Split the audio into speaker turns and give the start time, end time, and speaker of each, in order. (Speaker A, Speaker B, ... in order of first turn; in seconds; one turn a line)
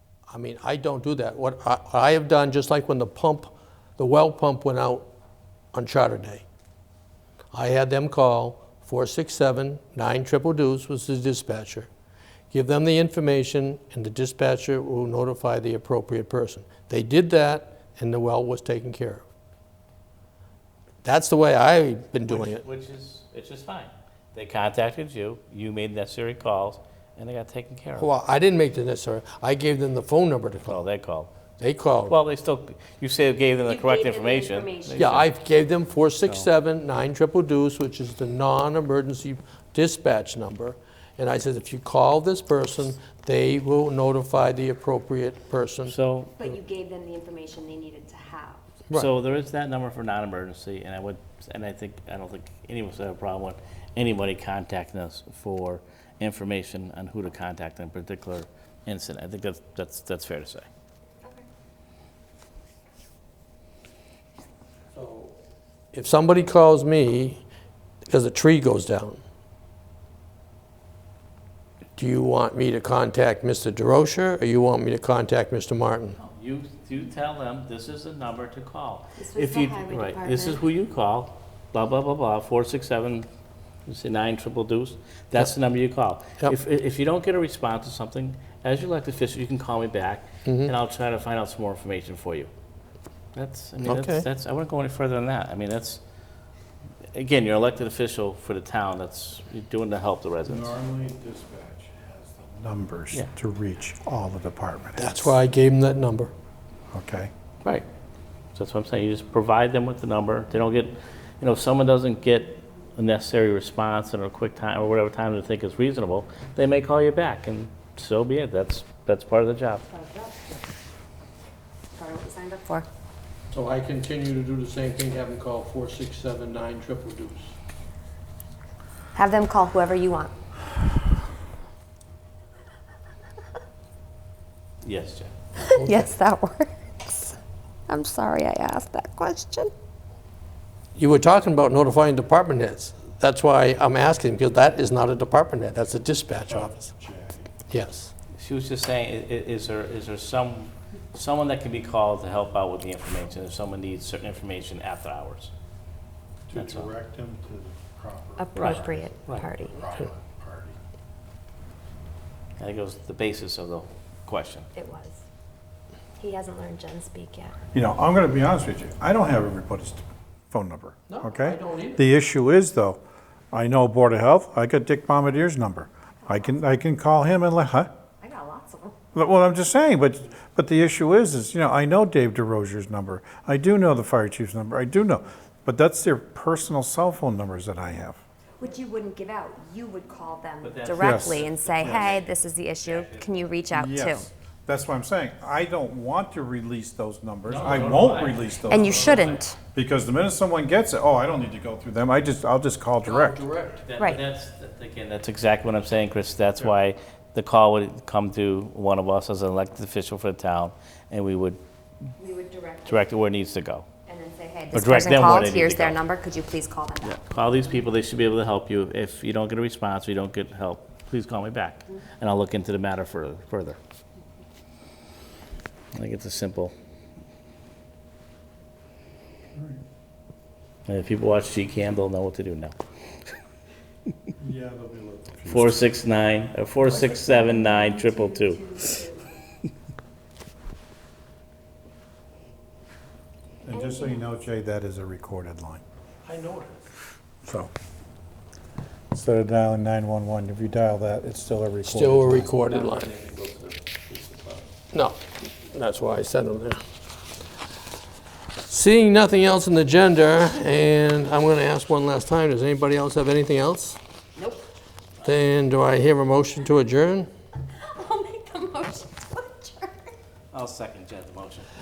Speaker A: 0.3-5.1
Speaker A: 5.7-6.5
Speaker A: 7.5-11.9
Speaker A: 12.5-19.2
Speaker A: 21.0-22.6
Speaker B: 22.3-28.1
Speaker A: 28.0-30.8
Speaker B: 30.7-31.3
Speaker A: 31.6-32.2
Speaker B: 32.1-35.3
Speaker C: 33.6-35.0
Speaker A: 34.9-45.9
Speaker B: 45.9-46.4
Speaker C: 46.4-48.6
Speaker B: 48.9-60.7
Speaker A: 64.9-65.3
Speaker A: 65.9-67.4
Speaker A: 68.1-69.2
Speaker A: 72.0-76.2
Speaker B: 76.2-83.3
Speaker C: 79.2-80.6
Speaker B: 83.9-92.5
Speaker A: 90.4-90.7
Speaker B: 93.3-96.0
Speaker A: 93.8-94.2
Speaker B: 97.1-100.7
Speaker D: 100.5-105.3
Speaker A: 105.0-106.3
Speaker D: 106.9-107.3
Speaker B: 108.5-119.8
Speaker C: 119.9-120.6
Speaker C: 121.9-122.8
Speaker A: 123.5-127.5
Speaker C: 129.2-130.3
Speaker B: 134.8-135.3
Speaker C: 135.6-137.4
Speaker A: 135.8-136.1
Speaker C: 137.9-139.7
Speaker A: 140.9-146.9
Speaker D: 146.5-147.5
Speaker A: 147.7-148.1
Speaker B: 148.3-155.5
Speaker D: 156.5-160.8
Speaker B: 156.5-156.9
Speaker C: 158.4-159.8
Speaker B: 158.6-159.5
Speaker B: 162.6-164.7
Speaker C: 164.8-165.2
Speaker C: 166.2-167.5
Speaker D: 167.7-173.0
Speaker A: 171.1-172.0
Speaker D: 173.5-177.9
Speaker C: 178.2-178.9
Speaker D: 179.1-188.2
Speaker C: 188.6-194.3
Speaker B: 190.6-193.6
Speaker D: 190.9-192.1
Speaker D: 193.7-203.5
Speaker B: 197.4-199.4
Speaker C: 198.7-199.6
Speaker A: 203.0-203.8
Speaker B: 203.8-211.6
Speaker C: 204.0-204.2
Speaker C: 212.2-213.1
Speaker B: 212.8-213.8
Speaker C: 214.1-217.2
Speaker B: 214.7-216.0
Speaker B: 217.0-223.8
Speaker B: 225.9-226.7
Speaker D: 229.5-229.8
Speaker B: 230.9-232.8
Speaker D: 234.4-235.8
Speaker B: 235.4-238.8
Speaker C: 236.8-239.3
Speaker D: 243.6-245.8
Speaker C: 243.7-244.3
Speaker A: 246.2-246.9
Speaker D: 247.4-247.7
Speaker D: 249.1-252.6
Speaker A: 251.9-253.1
Speaker B: 253.3-254.6
Speaker A: 254.9-256.8
Speaker A: 258.7-264.0
Speaker C: 264.4-264.6
Speaker A: 265.2-267.3
Speaker C: 267.7-270.1
Speaker B: 270.5-271.7